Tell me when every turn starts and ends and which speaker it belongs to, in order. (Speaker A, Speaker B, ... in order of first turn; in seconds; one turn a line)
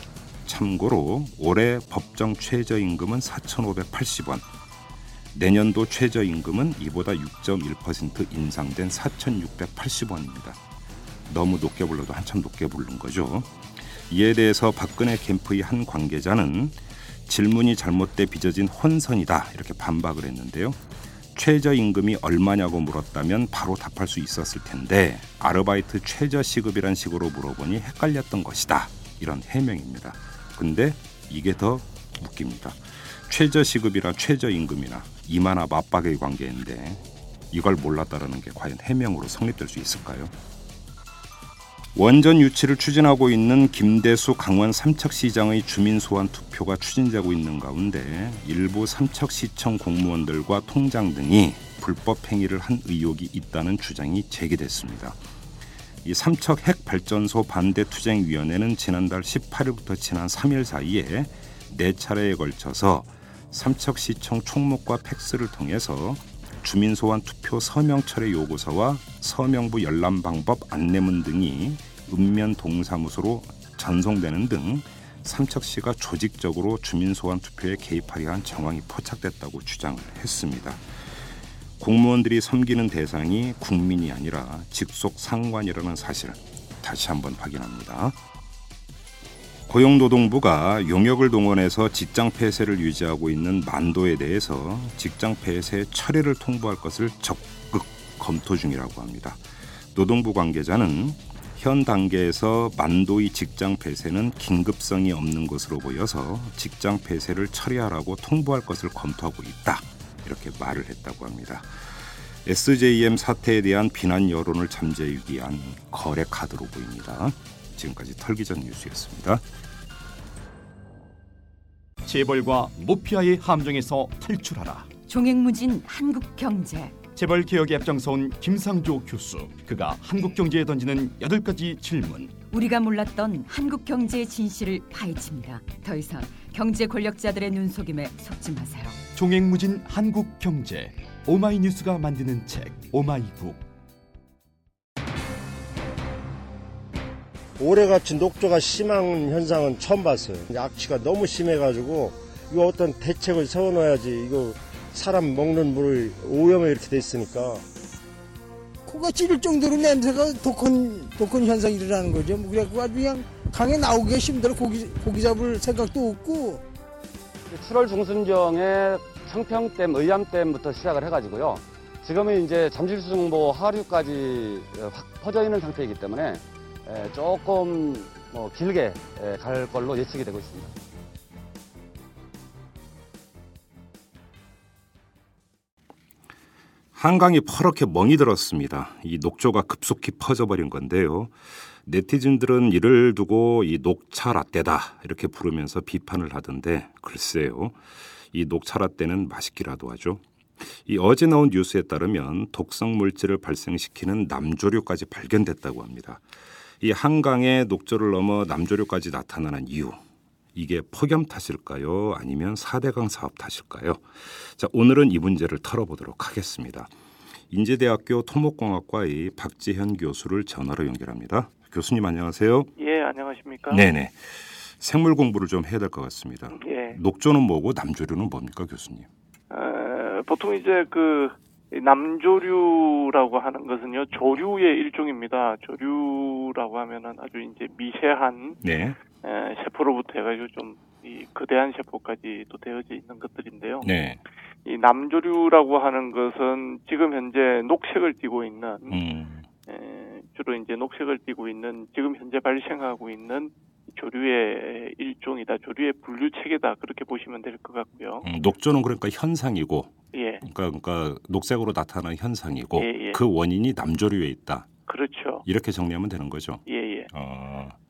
Speaker A: 0.5-4.5
Speaker A: 5.3-10.6
Speaker A: 11.3-13.5
Speaker A: 14.1-20.8
Speaker A: 21.3-40.3
Speaker A: 41.9-55.2
Speaker A: 56.0-80.8
Speaker A: 81.8-88.2
Speaker A: 89.7-99.4
Speaker A: 99.9-111.7
Speaker A: 112.4-119.4
Speaker B: 122.0-124.9
Speaker C: 125.1-127.0
Speaker B: 127.2-132.4
Speaker C: 132.5-139.0
Speaker B: 139.2-143.7
Speaker D: 147.6-157.6
Speaker E: 158.8-166.6
Speaker F: 167.5-180.7
Speaker A: 186.9-191.3
Speaker A: 191.8-197.8
Speaker A: 198.3-206.2
Speaker A: 206.8-210.0
Speaker A: 210.5-216.9
Speaker A: 217.5-222.7
Speaker G: 222.8-223.8
Speaker A: 223.7-229.1
Speaker G: 226.5-227.0
Speaker G: 229.5-238.6
Speaker A: 238.6-239.0
Speaker G: 239.2-243.9
Speaker A: 243.8-244.2
Speaker G: 244.7-249.0
Speaker A: 248.9-249.4
Speaker G: 249.7-258.3
Speaker A: 258.2-264.7
Speaker G: 260.1-260.4
Speaker G: 262.8-263.2
Speaker G: 264.9-265.4
Speaker A: 265.5-267.8
Speaker G: 266.7-267.1